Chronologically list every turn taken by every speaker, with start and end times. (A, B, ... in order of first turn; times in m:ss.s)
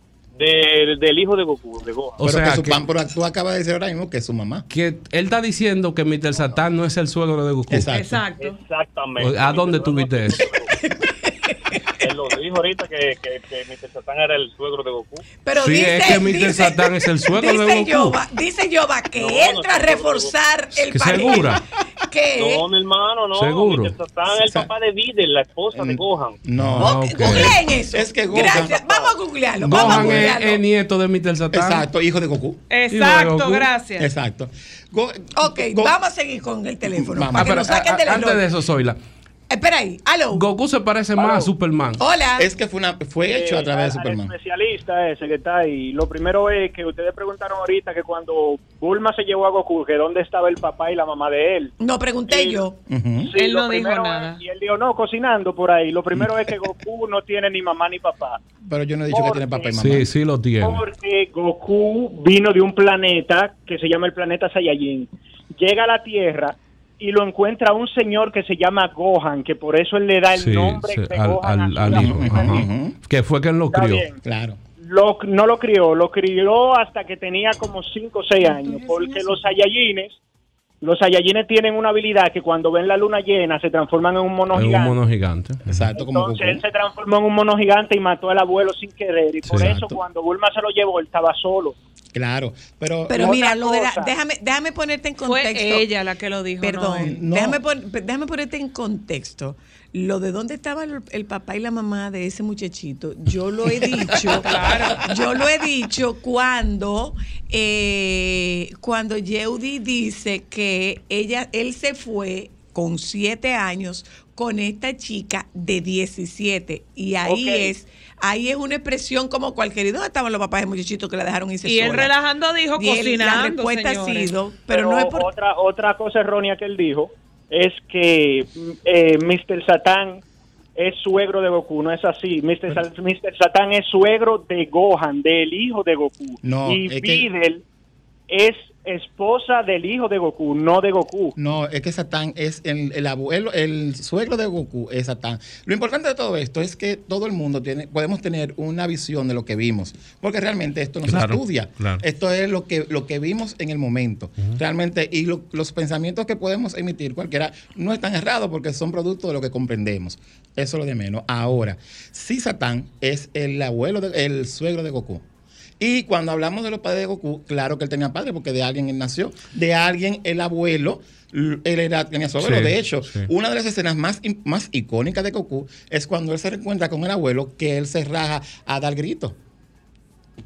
0:00.4-0:02.2 A
0:02.2-0:02.8 B
0:02.2-0:04.6 C
0:04.7-0:07.9 B
0:07.7-0:08.2 C
0:07.9-0:08.6 D
0:08.3-0:10.7 A
0:09.2-0:10.5 B
0:10.8-0:11.8 E
0:12.0-0:15.2 A
0:15.4-0:22.6 E
0:15.6-0:18.2 B
0:19.2-0:20.3 A
0:20.8-0:21.6 B
0:22.4-0:26.4 A
0:23.3-0:24.0 B
0:24.3-0:24.7 C
0:25.8-0:29.1 C
0:26.6-0:27.6 B
0:26.8-0:30.6 E
0:29.6-0:31.9 B
0:29.7-0:30.3 C
0:31.5-0:32.6 C
0:32.7-0:34.1 D
0:32.9-0:33.7 B
0:34.0-0:35.9 C
0:35.4-0:38.4 E
0:37.0-0:38.0 C
0:37.4-0:39.0 B
0:39.5-0:40.4 E
0:40.3-0:42.0 B
0:42.0-0:42.5 E
0:42.4-0:44.3 C
0:43.3-0:51.7 F
0:51.8-0:52.8 E
0:52.3-0:52.6 F
0:52.9-0:53.4 C
0:53.2-0:58.4 F
0:53.4-0:54.4 D
0:58.6-1:00.1 C
0:59.1-0:59.7 F
0:59.8-1:00.8 B
1:00.6-1:12.6 F
1:10.4-1:14.1 B
1:11.8-1:13.0 C
1:13.7-1:14.2 F
1:14.2-1:14.6 C
1:14.8-1:20.2 F
1:18.4-1:19.0 E
1:20.8-1:25.0 F
1:24.5-1:25.8 B
1:25.7-1:26.6 C
1:25.9-1:31.8 F
1:29.6-1:30.0 C
1:32.1-1:33.4 C
1:33.1-1:35.9 E
1:33.1-1:34.1 F
1:35.3-1:37.2 D
1:36.6-2:02.2 E
1:37.0-1:37.6 C
1:44.4-1:45.1 D
1:57.2-1:57.7 F
2:01.6-2:04.3 D
2:02.8-2:05.3 E
2:04.7-2:10.2 F
2:10.8-2:17.6 F
2:16.4-2:17.3 C
2:18.3-2:21.4 F
2:21.4-2:45.2 C
2:31.0-2:32.0 B
2:45.8-2:59.4 C
2:52.4-2:53.3 B